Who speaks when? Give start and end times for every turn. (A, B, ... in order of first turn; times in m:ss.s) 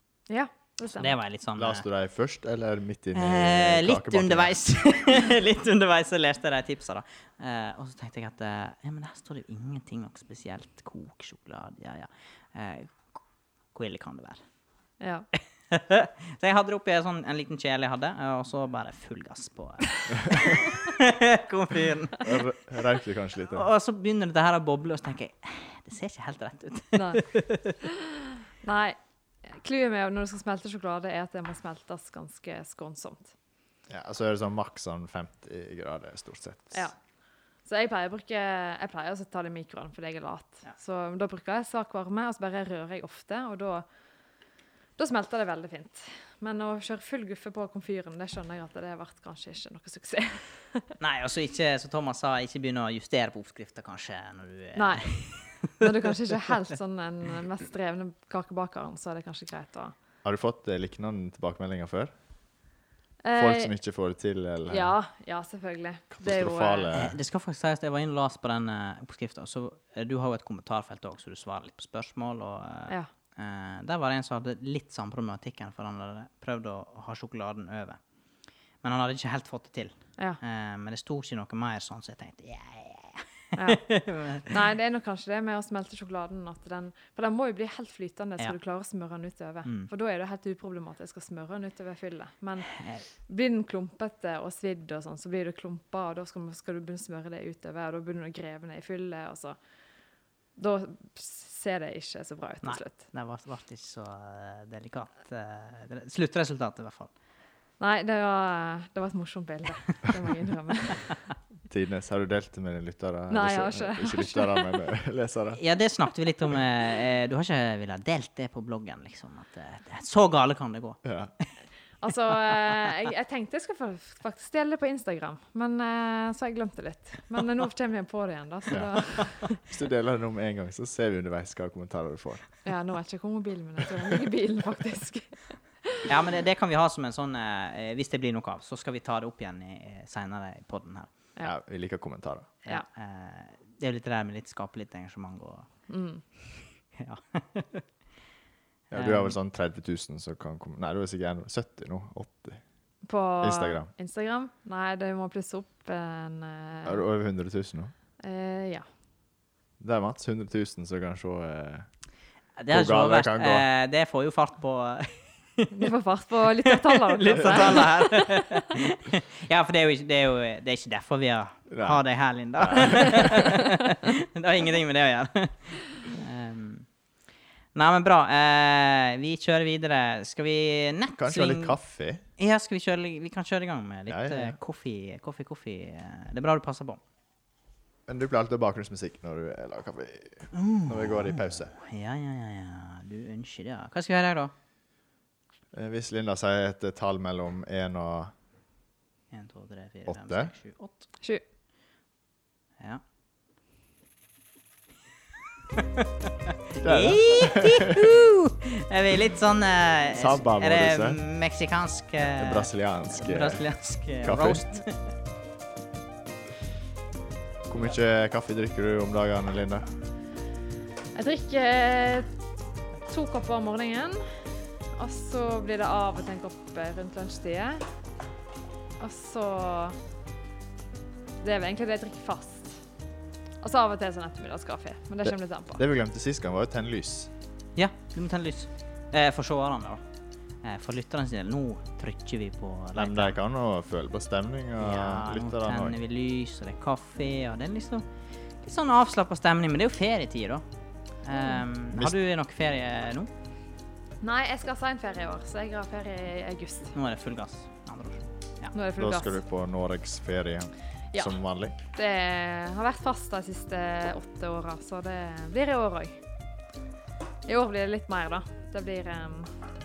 0:00.3-0:01.2 A
0:00.9-0:01.8 B
0:01.6-0:04.6 C
0:03.1-0:13.2 B
0:13.7-0:14.4 B
0:15.0-0:15.3 A
0:15.7-0:22.4 B
0:22.2-0:23.7 C
0:23.4-0:27.8 B
0:26.9-0:27.2 A
0:27.8-0:33.3 A
0:33.9-0:36.9 C
0:37.7-0:43.8 A
0:45.0-0:50.9 A
0:51.0-0:55.9 B
0:54.8-0:59.9 A
1:00.2-1:02.1 C
1:03.2-1:03.7 A
1:03.4-1:05.0 C
1:04.7-1:06.9 A
1:06.1-1:07.2 C
1:06.9-1:18.0 B
1:18.8-1:24.6 B
1:23.6-1:23.8 A
1:24.5-1:39.6 A
1:29.6-1:29.9 B
1:32.7-1:33.0 B
1:40.6-1:43.0 A
1:42.6-1:47.1 B
1:47.8-1:51.1 A
1:51.7-1:55.6 C
1:53.3-1:54.7 A
1:55.6-2:01.0 B
2:01.0-2:01.3 C
2:02.0-2:09.6 A
2:08.7-2:12.5 C
2:12.6-2:16.1 A
2:16.1-2:21.1 B
2:21.4-2:22.6 C
2:22.6-2:25.7 B
2:25.9-2:26.2 A
2:27.0-2:27.8 B
2:28.9-2:29.4 B
2:28.9-2:32.6 C
2:33.1-2:37.0 A
2:33.4-2:33.9 C
2:36.8-2:37.9 C
2:38.2-2:38.9 A
2:39.8-2:41.9 C
2:42.6-2:45.9 B
2:42.7-2:43.7 C
2:45.7-2:48.5 A
2:46.6-2:56.9 B
2:51.7-2:52.0 C
2:52.6-2:53.4 C
2:57.8-3:01.8 B
3:01.2-3:02.2 C
3:02.4-3:07.0 B
3:04.1-3:04.6 C
3:08.1-3:11.7 C
3:10.5-3:14.5 B
3:15.7-3:18.3 C
3:19.3-3:21.1 B
3:20.1-3:20.5 C
3:25.8-3:35.0 B
3:26.8-3:28.1 C
3:30.1-3:31.2 C
3:32.2-3:33.6 C
3:34.2-3:34.8 C
3:37.7-3:39.9 C
3:41.2-3:42.3 A
3:43.1-3:44.4 A
3:45.0-3:47.8 A
3:49.0-3:50.0 A
3:51.4-3:52.8 A
3:53.6-3:55.8 A
3:55.3-3:57.3 C
3:57.8-4:00.0 B
4:00.6-4:03.4 B
4:03.0-4:06.0 C
4:04.8-4:08.1 B
4:08.6-4:10.6 B
4:11.2-4:13.3 B
4:14.2-4:17.0 A
4:16.9-4:18.7 B
4:18.7-4:19.4 A
4:19.0-4:21.8 C
4:21.9-4:26.2 A
4:27.5-4:29.5 A